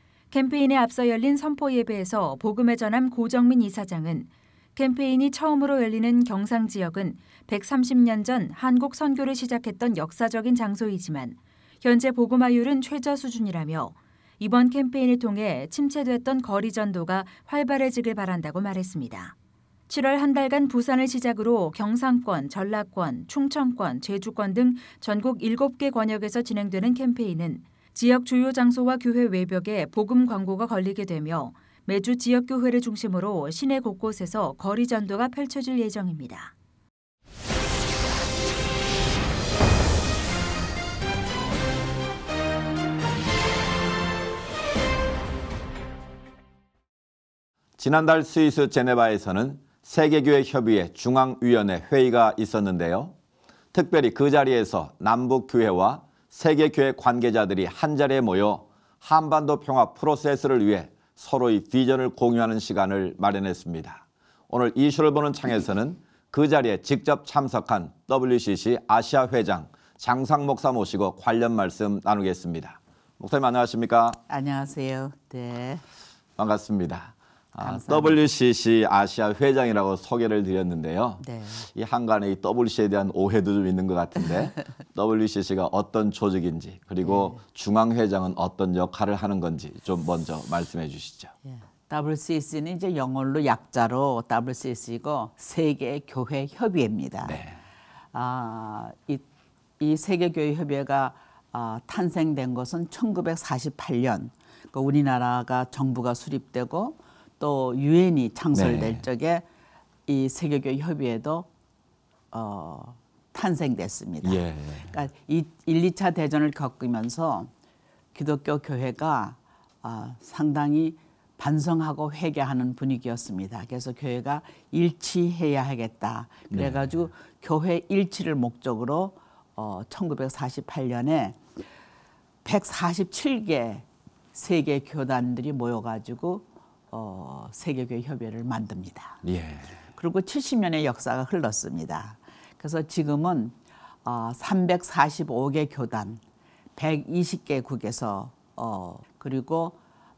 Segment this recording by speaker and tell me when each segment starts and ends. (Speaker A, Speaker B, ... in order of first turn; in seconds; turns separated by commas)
Speaker A: 0.3-19.3, Speaker A: 19.9-36.5, Speaker B: 47.8-53.1, Speaker B: 53.7-74.2, Speaker C: 74.3-75.8, Speaker B: 76.4-91.3, Speaker C: 77.6-78.2, Speaker C: 81.2-81.6, Speaker C: 87.0-87.4, Speaker C: 91.4-97.4, Speaker B: 97.2-97.6, Speaker C: 98.1-99.2, Speaker C: 99.8-109.4, Speaker B: 108.5-109.0, Speaker C: 110.1-111.5, Speaker C: 112.3-117.5, Speaker B: 114.2-115.0, Speaker C: 118.1-131.4, Speaker B: 126.5-127.1, Speaker C: 132.4-139.2, Speaker B: 139.2-139.8, Speaker C: 139.9-146.2, Speaker C: 146.8-149.8